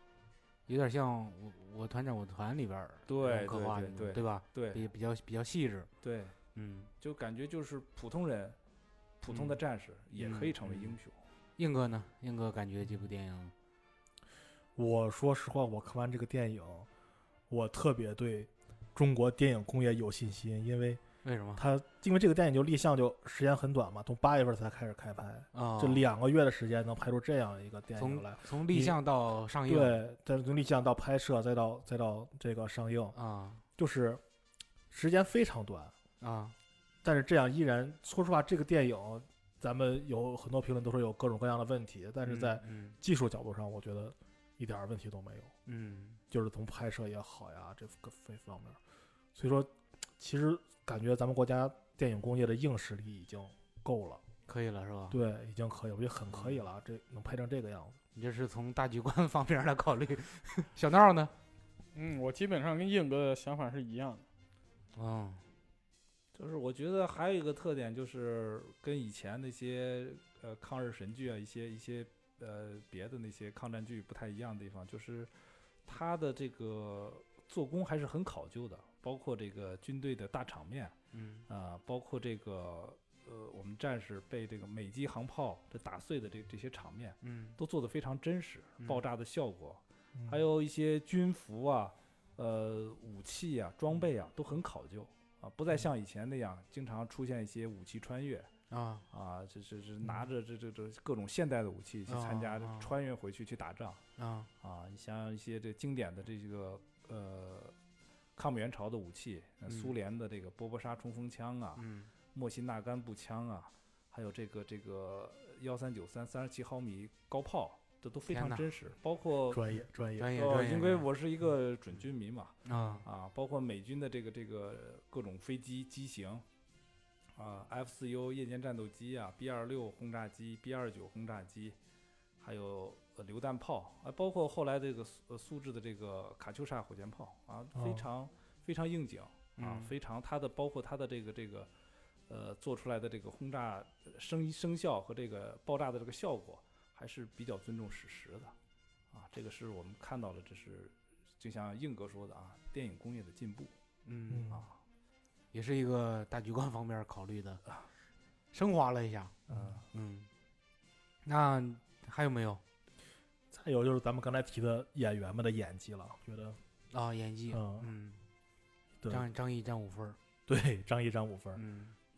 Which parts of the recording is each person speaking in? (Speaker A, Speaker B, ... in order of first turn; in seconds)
Speaker A: 0.7-5.9, 6.5-6.9, 9.3-9.6, 10.2-11.0, 11.6-13.5, 21.2-21.6, 25.5-26.0, 28.0-30.0, 33.1-33.6, 36.2-36.5, 42.2-43.0, 45.6-46.2, 54.5-55.2, 58.1-61.3, 64.9-65.4, 81.1-81.4, 87.2-87.6, 98.7-99.0, 102.1-102.9, 104.2-104.5, 109.7-109.9, 111.8-112.1, 118.3-118.6, 120.2-121.0, 122.6-123.0, 139.6-139.9, 154.1-154.5, 155.5-157.6, 158.5-159.4, 159.9-160.3, 161.2-162.6, 166.9-168.2, 169.1-170.2, 171.6-171.9
Speaker B: 3.1-4.8, 6.0-6.3, 7.0-8.6, 9.2-11.2, 66.3-75.3, 75.9-80.9, 81.5-98.5, 99.1-104.0, 104.6-107.7, 108.3-119.6, 120.3-126.4, 127.3-131.7, 132.4-141.7, 142.3-148.5, 149.1-153.7
Speaker C: 14.8-16.9, 17.5-21.0, 21.6-29.0, 29.7-33.1, 33.8-34.2, 34.9-35.9, 37.0-45.5, 46.3-48.8, 49.3-54.2, 55.1-58.0, 90.1-90.4, 119.5-120.3, 137.7-138.0, 154.3-154.7, 159.5-159.8, 163.5-166.6, 167.5-167.9, 170.5-171.6
Speaker D: 61.9-64.2